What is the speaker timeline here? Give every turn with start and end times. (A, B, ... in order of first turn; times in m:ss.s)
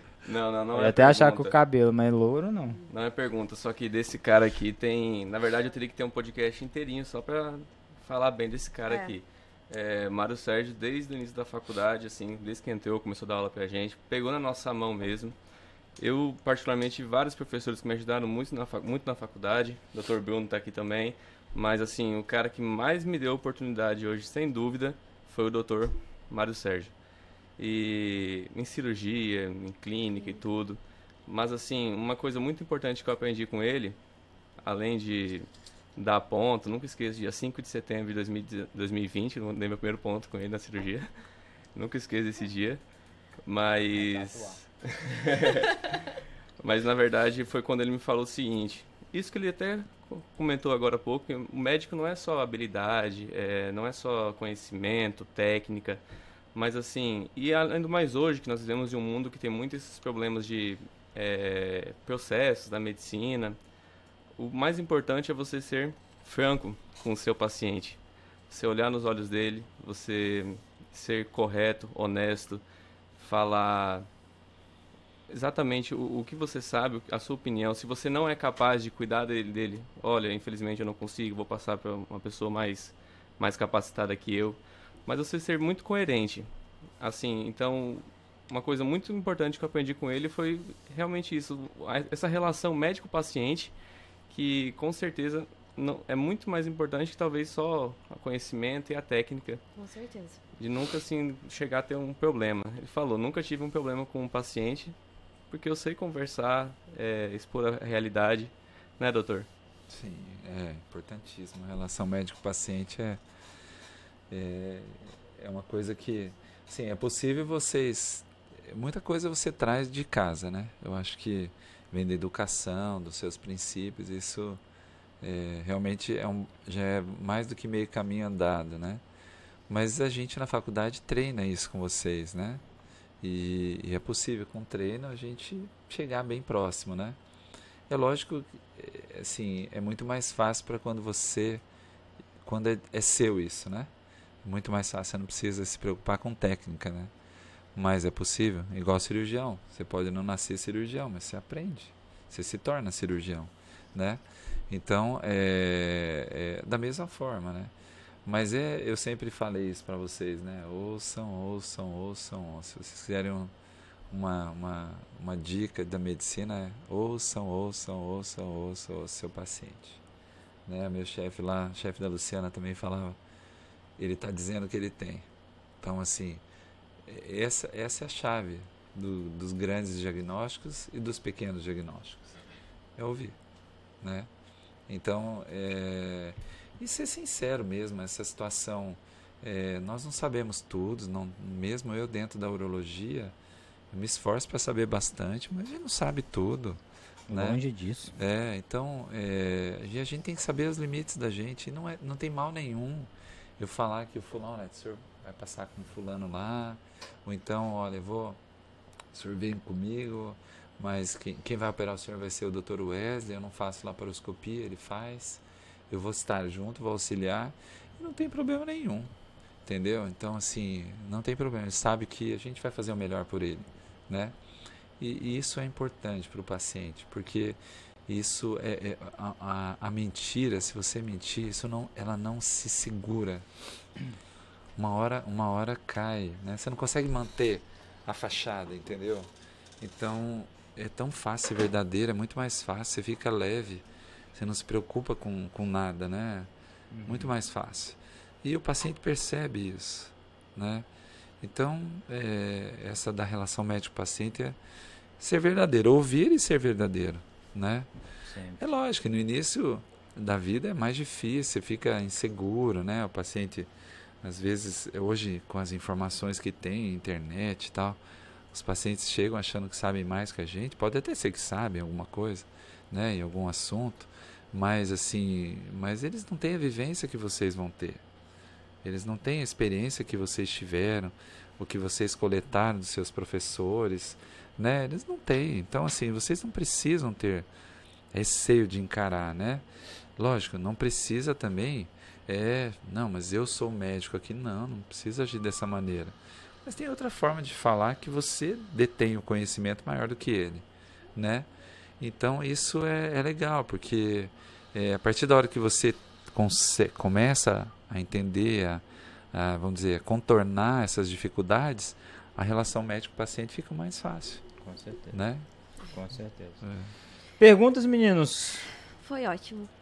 0:00.2-0:01.6 A
0:00.7-0:02.8 B
0:02.9-0:15.4 A
0:08.9-0:09.1 C
0:16.0-0:27.0 A
0:27.6-0:34.0 A
0:30.2-0:30.4 C
0:34.6-0:41.1 A
0:41.7-0:42.8 A
0:43.4-0:45.7 A
0:43.9-0:44.6 B
0:46.6-1:03.6 A
1:04.4-1:12.6 A
1:13.2-1:14.1 A
1:15.3-1:33.7 A
1:34.3-1:39.6 A
1:39.7-1:40.4 C
1:40.6-1:45.0 A
1:45.5-1:49.5 A
1:49.9-1:53.2 D
1:54.3-2:04.6 D
2:05.2-2:09.0 D
2:09.7-2:12.6 D
2:13.2-2:17.2 D
2:17.9-2:21.6 D
2:22.4-2:23.9 D
2:24.4-2:27.1 D
2:27.7-2:37.7 D
2:38.2-2:43.5 D
2:44.1-2:50.0 D
2:50.6-2:53.2 D
2:54.0-2:55.2 D
2:55.8-2:56.4 D
2:57.0-3:02.4 D
3:03.0-3:03.4 D
3:04.0-3:04.3 D
3:04.9-3:13.3 D
3:13.9-3:17.6 D
3:17.3-3:18.1 B
3:18.1-3:28.4 D
3:29.1-3:39.1 D
3:39.6-3:44.4 D
3:45.0-3:53.4 D
3:54.8-3:59.3 D
3:59.8-4:06.5 D
4:06.9-4:07.3 B
4:07.0-4:10.8 D
4:11.4-4:14.6 D
4:15.2-4:17.9 D
4:18.2-4:18.6 B
4:18.6-4:23.7 D
4:24.2-4:28.0 D
4:28.5-4:38.0 D
4:38.8-4:47.5 D
4:48.1-4:49.6 D
4:50.2-5:01.5 D
5:02.0-5:14.4 D
5:14.6-5:15.2 B
5:15.1-5:15.4 D
5:15.9-5:16.6 B
5:16.6-5:16.9 D
5:17.4-5:18.7 B
5:19.0-5:19.7 C